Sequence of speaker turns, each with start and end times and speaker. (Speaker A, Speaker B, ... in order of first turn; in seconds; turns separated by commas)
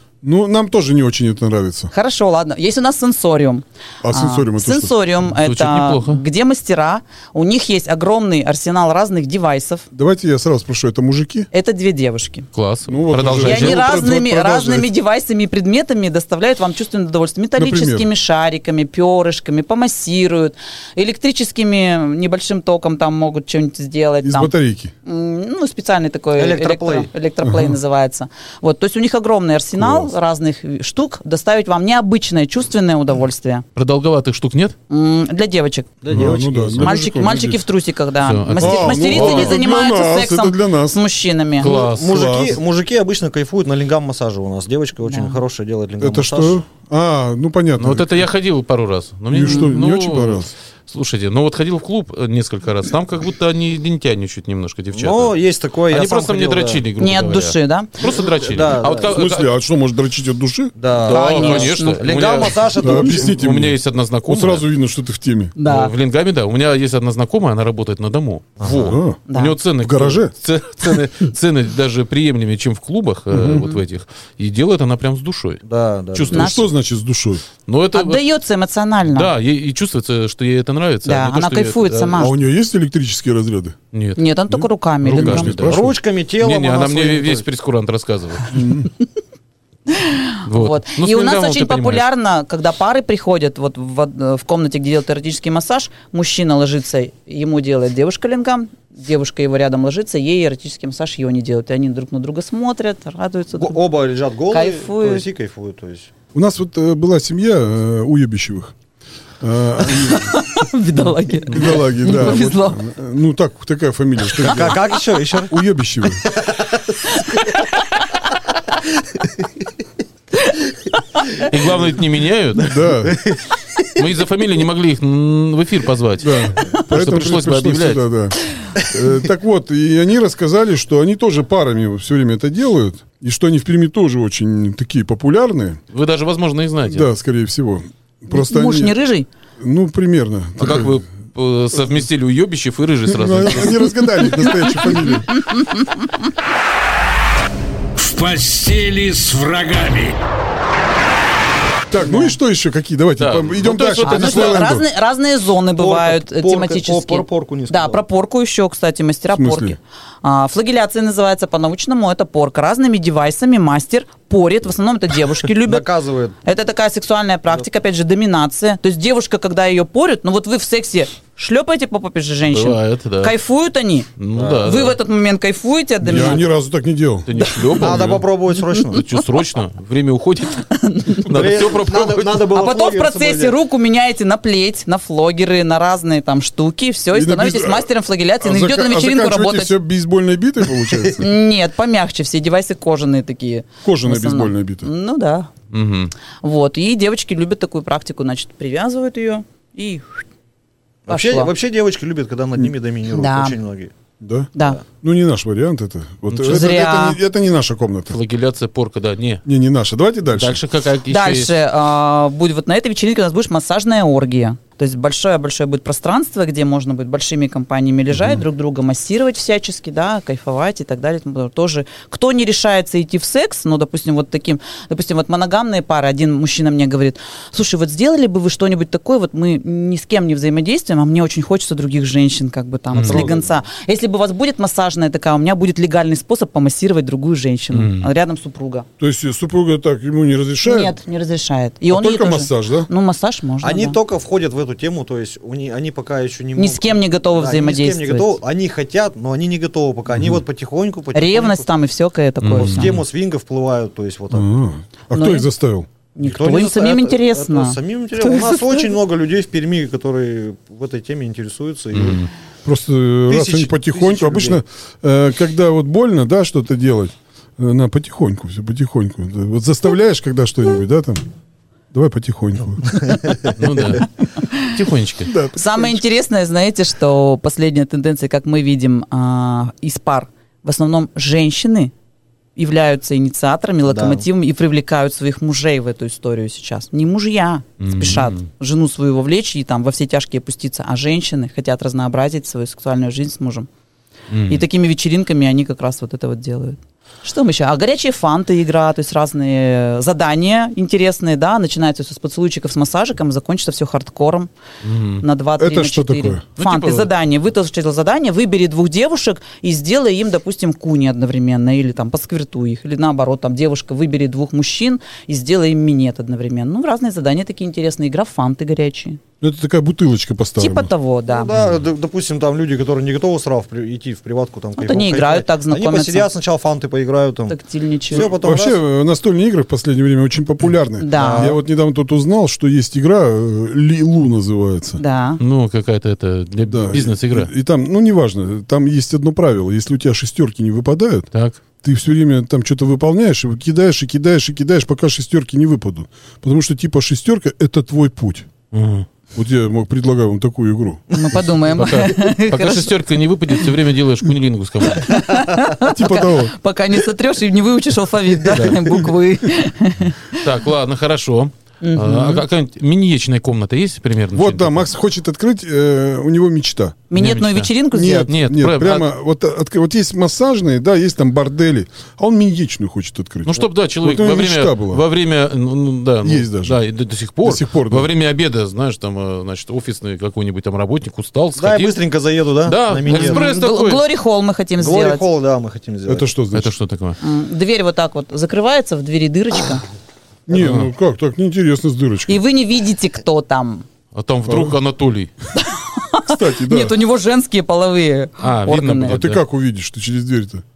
Speaker A: 0.2-1.9, Speaker B: 1.9-9.8, Speaker A: 4.0-4.9, Speaker C: 5.3-6.2, Speaker A: 9.9-11.5, Speaker B: 11.5-12.5, Speaker C: 12.5-13.8, Speaker A: 12.9-14.9, Speaker B: 13.4-24.5, Speaker A: 17.6-18.1, Speaker A: 24.2-24.9, Speaker B: 25.1-33.6, Speaker D: 26.4-27.1, Speaker A: 27.4-27.8, Speaker A: 29.8-30.1, Speaker C: 33.8-34.8, Speaker B: 34.9-41.7, Speaker D: 36.0-37.0, Speaker A: 36.1-37.6, Speaker C: 38.2-39.6, Speaker A: 38.6-41.0, Speaker C: 41.6-42.3, Speaker D: 41.6-46.6, Speaker A: 42.0-42.6, Speaker B: 45.0-45.4, Speaker A: 46.0-48.2, Speaker C: 47.8-55.3, Speaker A: 49.3-50.5, Speaker D: 54.9-56.8, Speaker C: 55.9-59.5, Speaker B: 57.0-57.9, Speaker D: 58.0-59.2, Speaker A: 59.1-60.7, Speaker D: 60.8-63.5, Speaker C: 61.0-64.7, Speaker B: 61.1-62.6, Speaker A: 62.8-65.5, Speaker B: 65.6-65.9, Speaker C: 65.6-75.6, Speaker D: 68.6-69.0, Speaker A: 68.8-69.2, Speaker B: 69.3-69.6, Speaker A: 69.8-70.3, Speaker A: 73.3-73.7, Speaker D: 75.6-76.6, Speaker C: 76.2-76.5, Speaker A: 76.3-77.4, Speaker B: 76.3-76.7, Speaker C: 77.7-78.2, Speaker B: 77.9-79.3, Speaker C: 79.1-82.3, Speaker B: 81.0-82.3, Speaker A: 82.2-83.8, Speaker C: 83.9-84.2, Speaker B: 84.2-85.6, Speaker A: 84.5-86.0, Speaker C: 85.0-88.5, Speaker D: 85.6-87.5, Speaker A: 88.5-88.8, Speaker B: 89.9-103.8, Speaker C: 90.5-92.1, Speaker D: 103.6-106.1, Speaker B: 104.5-105.2, Speaker A: 106.3-108.7, Speaker A: 109.4-110.7, Speaker B: 110.0-112.8, Speaker A: 111.5-114.8, Speaker D: 114.4-115.5, Speaker A: 115.5-116.4, Speaker D: 116.3-116.9, Speaker B: 117.0-117.6, Speaker D: 119.1-119.7, Speaker B: 120.4-120.7, Speaker B: 121.2-121.5, Speaker D: 121.2-122.0, Speaker C: 121.4-122.8, Speaker D: 122.5-123.9, Speaker A: 122.6-123.2, Speaker C: 124.0-128.0, Speaker A: 126.2-135.8, Speaker C: 135.9-137.1, Speaker A: 136.9-138.9, Speaker B: 138.3-139.3, Speaker A: 139.6-141.0, Speaker C: 140.6-144.5, Speaker A: 143.1-145.4, Speaker B: 145.3-146.1, Speaker E: 148.0-150.2, Speaker A: 151.9-154.8, Speaker B: 152.0-152.4, Speaker C: 153.2-154.7, Speaker B: 154.0-165.9, Speaker D: 155.8-158.0, Speaker A: 159.3-159.8, Speaker D: 165.7-166.4, Speaker B: 166.4-176.5, Speaker C: 172.5-173.3, Speaker C: 174.2-175.0, Speaker D: 174.3-174.9, Speaker A: 176.0-177.3, Speaker C: 177.3-178.3, Speaker B: 177.4-178.0, Speaker D: 177.8-179.0, Speaker B: 178.7-179.0, Speaker C: 178.9-182.4, Speaker B: 180.7-181.3, Speaker D: 181.3-183.6, Speaker B: 182.5-189.8, Speaker A: 187.1-187.9, Speaker A: 188.4-191.3, Speaker B: 191.2-195.5, Speaker A: 193.8-194.9, Speaker C: 195.7-196.1, Speaker B: 196.4-200.2, Speaker B: 201.1-201.5, Speaker D: 201.1-203.9, Speaker B: 203.1-203.6, Speaker A: 204.2-208.2, Speaker B: 204.5-204.8, Speaker C: 206.3-206.7, Speaker B: 206.4-207.2, Speaker C: 208.1-209.4, Speaker A: 209.5-210.6, Speaker C: 210.3-211.5, Speaker B: 211.1-238.9, Speaker C: 232.9-233.3, Speaker D: 233.0-233.5, Speaker C: 237.7-238.1, Speaker A: 239.0-240.9, Speaker B: 240.6-244.0, Speaker A: 241.9-242.9, Speaker D: 243.6-251.7, Speaker B: 246.6-248.4, Speaker B: 251.1-252.9, Speaker C: 252.4-253.0, Speaker D: 252.6-254.5, Speaker A: 254.3-255.9, Speaker B: 255.1-255.5, Speaker B: 256.1-258.9, Speaker D: 256.2-262.2, Speaker C: 261.9-262.3, Speaker A: 262.6-271.2, Speaker D: 263.3-264.6, Speaker A: 271.9-273.6, Speaker C: 273.5-274.1, Speaker B: 274.4-274.8, Speaker C: 274.6-275.3, Speaker A: 275.2-276.0, Speaker B: 275.6-281.9, Speaker B: 282.6-293.7, Speaker D: 283.9-284.2, Speaker C: 287.8-288.4, Speaker C: 294.3-294.6, Speaker B: 294.5-304.5, Speaker C: 304.8-305.2, Speaker B: 305.2-319.2, Speaker A: 305.6-306.4, Speaker C: 306.6-307.1, Speaker A: 319.4-320.9, Speaker B: 320.6-321.5, Speaker D: 321.3-327.6, Speaker B: 324.8-326.3, Speaker B: 327.5-328.3, Speaker D: 328.1-328.8, Speaker A: 328.2-335.0, Speaker B: 331.0-331.6, Speaker D: 331.1-331.6, Speaker B: 335.0-335.4, Speaker C: 335.4-337.5, Speaker A: 336.7-341.3, Speaker C: 341.3-341.6, Speaker A: 341.8-348.5, Speaker C: 348.7-349.1, Speaker A: 349.3-351.4, Speaker B: 351.1-352.9, Speaker C: 351.7-355.1, Speaker B: 355.0-360.4, Speaker A: 355.8-356.5, Speaker C: 358.5-358.8, Speaker C: 360.4-364.9, Speaker B: 361.8-362.4, Speaker A: 364.4-367.1, Speaker B: 367.1-368.3, Speaker C: 367.1-367.7, Speaker A: 367.9-375.0, Speaker C: 368.3-369.1, Speaker C: 373.4-382.0, Speaker A: 376.2-376.8, Speaker A: 377.4-378.1, Speaker D: 381.6-383.4, Speaker C: 382.6-384.0, Speaker B: 383.1-385.2, Speaker D: 384.8-386.3, Speaker A: 386.1-386.7, Speaker C: 386.5-387.2, Speaker B: 387.2-389.9, Speaker A: 390.5-392.4, Speaker C: 390.5-390.9, Speaker B: 392.3-393.9, Speaker C: 394.1-395.3, Speaker A: 394.5-394.8, Speaker B: 395.6-399.2, Speaker A: 396.3-396.9, Speaker C: 398.4-399.4, Speaker A: 399.1-400.6